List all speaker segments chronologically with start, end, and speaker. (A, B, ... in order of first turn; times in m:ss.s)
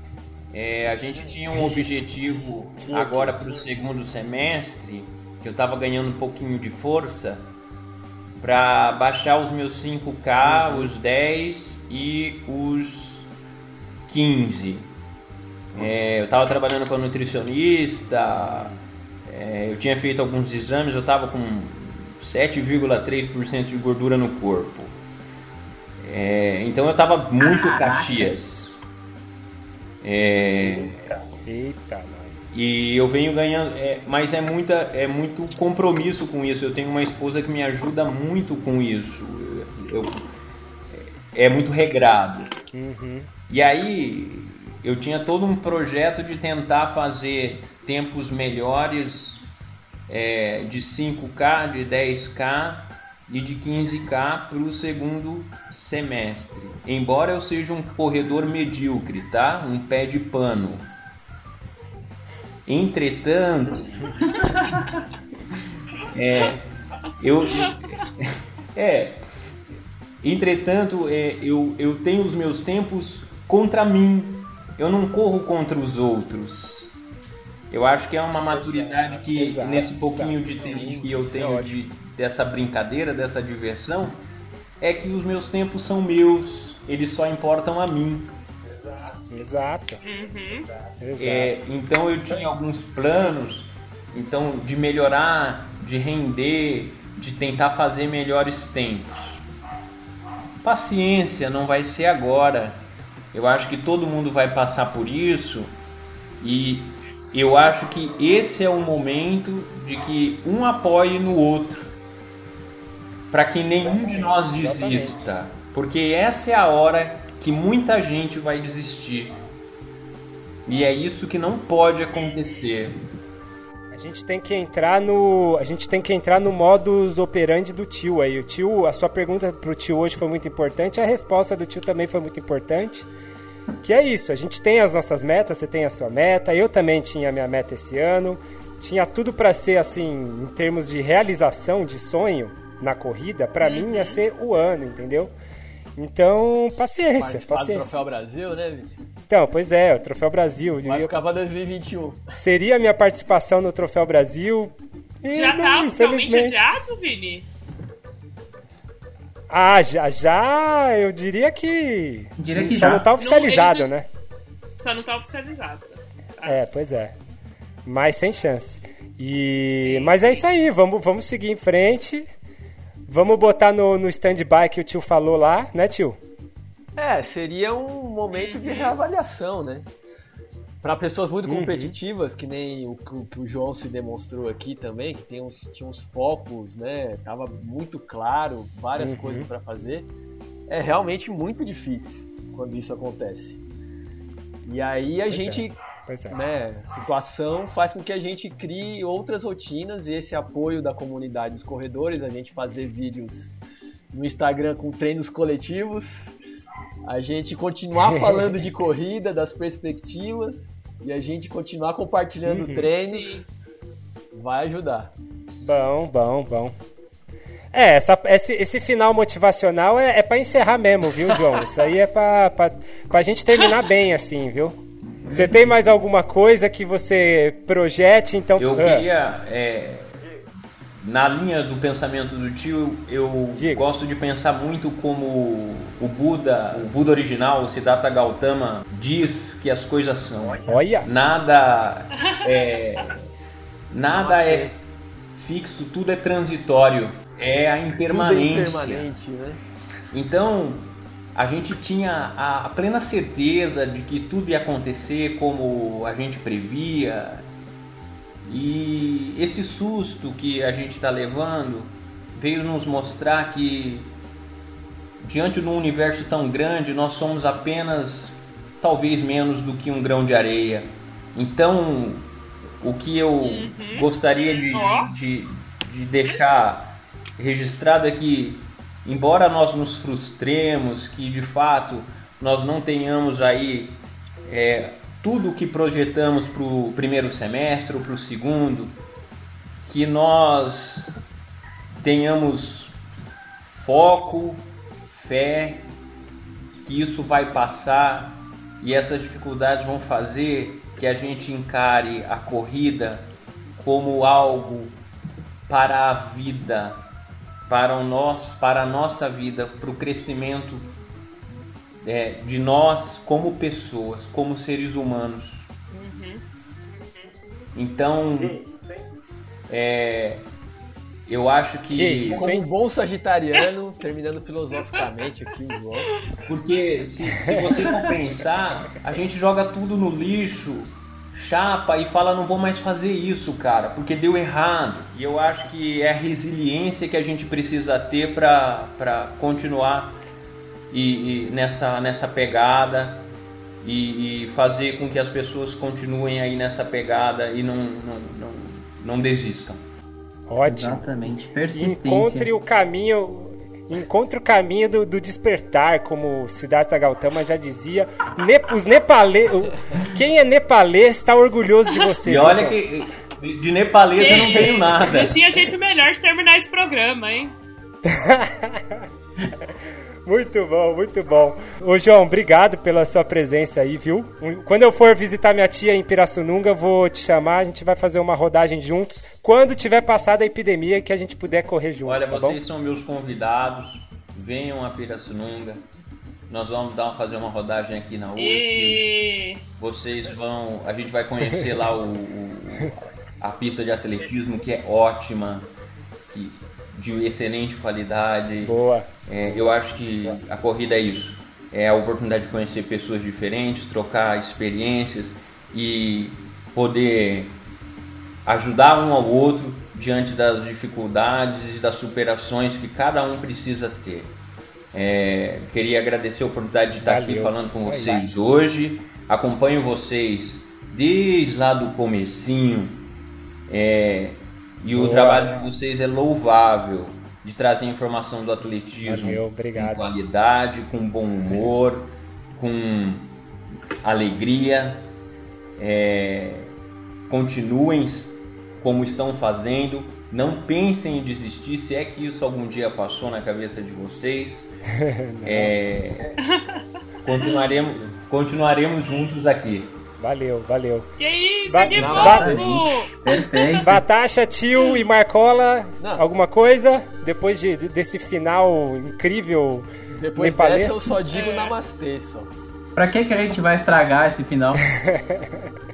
0:00.5-0:07.4 A
0:01.5-0:01.9 B
0:02.8-0:03.3 B
0:08.4-0:13.3 A
0:10.4-0:10.9 B
0:14.1-0:14.9 A
0:15.7-0:18.8 A
0:19.3-0:24.9 A
0:26.0-0:28.8 A
0:30.0-0:31.1 A
0:31.5-0:32.4 B
0:32.5-0:40.2 A
0:40.9-0:42.5 A
0:42.7-0:43.3 B
0:43.5-0:49.4 A
0:50.1-1:00.9 A
1:02.7-1:04.4 A
1:06.1-1:06.7 A
1:07.2-1:09.2 A
1:10.2-1:16.9 A
1:17.7-1:24.2 A
1:19.3-1:20.4 B
1:20.5-1:21.8 C
1:24.8-1:28.3 A
1:29.3-1:30.0 B
1:30.0-1:30.7 D
1:31.0-1:31.5 B
1:31.2-1:39.4 A
1:40.6-1:42.8 A
1:43.3-1:45.7 A
1:46.4-1:51.8 A
1:53.3-1:59.3 A
1:54.5-1:55.3 B
2:00.7-2:03.0 A
2:03.9-2:13.1 B
2:13.8-2:25.3 B
2:23.6-2:24.2 D
2:26.0-2:28.0 B
2:27.2-2:29.0 C
2:29.3-2:31.1 B
2:30.8-2:32.3 C
2:32.4-2:36.8 B
2:35.3-2:37.5 D
2:39.5-2:44.1 B
2:42.4-2:43.1 E
2:43.2-2:43.9 D
2:44.8-2:46.6 D
2:46.4-2:47.2 B
2:47.9-2:52.3 B
2:49.8-2:50.4 D
2:53.1-2:56.2 B
2:57.0-2:59.9 C
2:58.3-2:59.0 D
3:00.8-3:10.1 C
3:01.4-3:02.0 B
3:09.0-3:09.5 B
3:10.7-3:13.6 C
3:14.6-3:15.8 C
3:15.3-3:16.4 B
3:16.3-3:23.6 C
3:24.1-3:26.4 C
3:27.1-3:33.5 C
3:28.0-3:28.6 B
3:32.5-3:32.9 B
3:33.0-3:33.4 D
3:34.3-3:35.1 C
3:35.6-3:36.7 B
3:37.7-3:49.1 B
3:45.3-3:45.5 A
3:48.6-3:50.2 A
3:51.0-4:03.2 A
3:53.6-3:53.8 B
4:00.7-4:01.1 B
4:03.9-4:04.7 A
4:04.1-4:04.7 C
4:05.3-4:09.1 A
4:08.1-4:09.6 C
4:10.1-4:17.5 A
4:18.4-4:24.1 A
4:25.2-4:32.3 A
4:32.8-4:49.0 A
4:33.4-4:34.1 D
4:34.6-4:35.1 D
4:49.9-4:51.2 A
4:52.0-4:53.0 A
4:53.7-4:55.9 A
4:56.8-5:05.0 A
5:05.7-5:07.0 A
5:07.7-5:10.9 A
5:12.0-5:15.7 A
5:15.9-5:16.4 D
5:17.8-5:18.6 A
5:19.7-5:20.4 A
5:21.3-5:22.5 A
5:21.9-5:22.7 B
5:22.3-5:26.1 C
5:26.5-5:40.2 A
5:27.4-5:27.8 B
5:40.9-5:43.3 A
5:43.8-5:49.8 A
5:50.5-5:51.1 B
5:50.7-5:52.5 E
5:51.7-6:02.8 B
6:02.2-6:05.4 A
6:04.2-6:07.6 D
6:08.0-6:09.1 B
6:10.2-6:22.6 B
6:22.0-6:25.8 A
6:26.5-6:29.1 A
6:28.4-6:29.6 D
6:29.8-6:35.7 A
6:36.3-6:47.5 A
6:38.6-6:39.1 B
6:48.4-6:54.3 A
6:54.9-7:03.0 A
6:57.0-6:58.3 B
7:03.7-7:13.3 A
7:05.0-7:05.7 B
7:09.1-7:10.1 B
7:14.0-7:15.1 A
7:15.8-7:16.7 A
7:17.3-7:24.7 A
7:25.0-7:25.8 B
7:25.4-7:26.3 A
7:27.2-7:29.9 A
7:30.2-7:31.1 B
7:31.2-7:33.9 D
7:31.7-7:32.6 B
7:31.9-7:34.0 E
7:32.0-7:32.6 C
7:33.8-7:41.2 B
7:36.0-7:36.2 C
7:40.1-7:42.5 C
7:41.3-7:41.8 D
7:43.0-7:44.9 E
7:44.9-7:45.7 B